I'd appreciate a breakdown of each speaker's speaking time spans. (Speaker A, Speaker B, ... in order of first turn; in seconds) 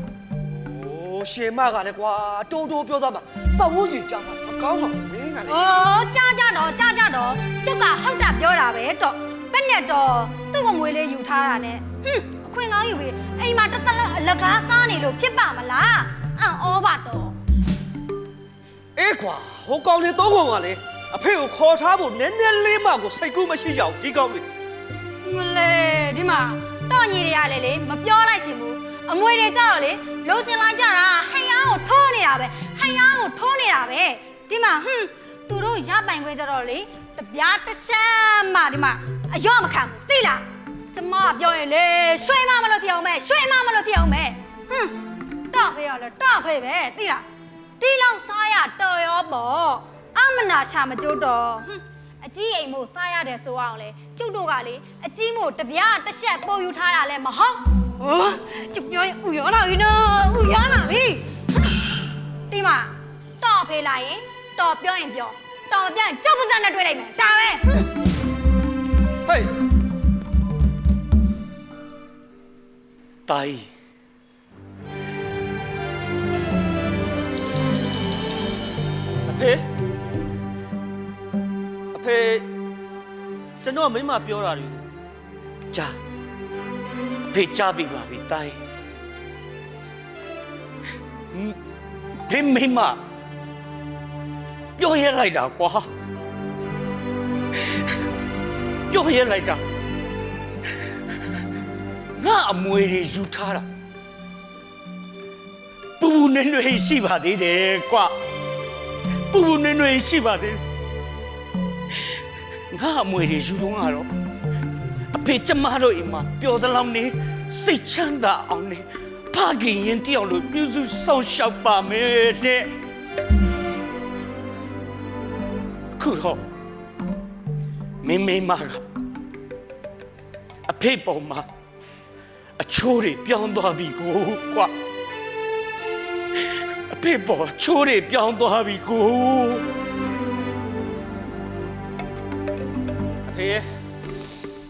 Speaker A: 0.5-5.5, 19.0-24.5, 69.3-69.5, 79.3-79.7, 81.9-82.5, 83.6-84.8, 143.3-143.7
Speaker B: 5.5-17.4, 25.2-45.0, 45.5-47.2, 47.8-61.3, 62.5-67.9
Speaker C: 73.3-73.7, 87.3-88.6, 92.3-93.0, 94.8-95.9, 98.9-99.6, 102.2-103.7, 106.0-108.2, 109.3-110.6, 112.7-114.1, 115.1-122.7, 126.0-126.4, 128.0-128.8, 130.7-131.5, 132.6-134.7, 136.9-139.7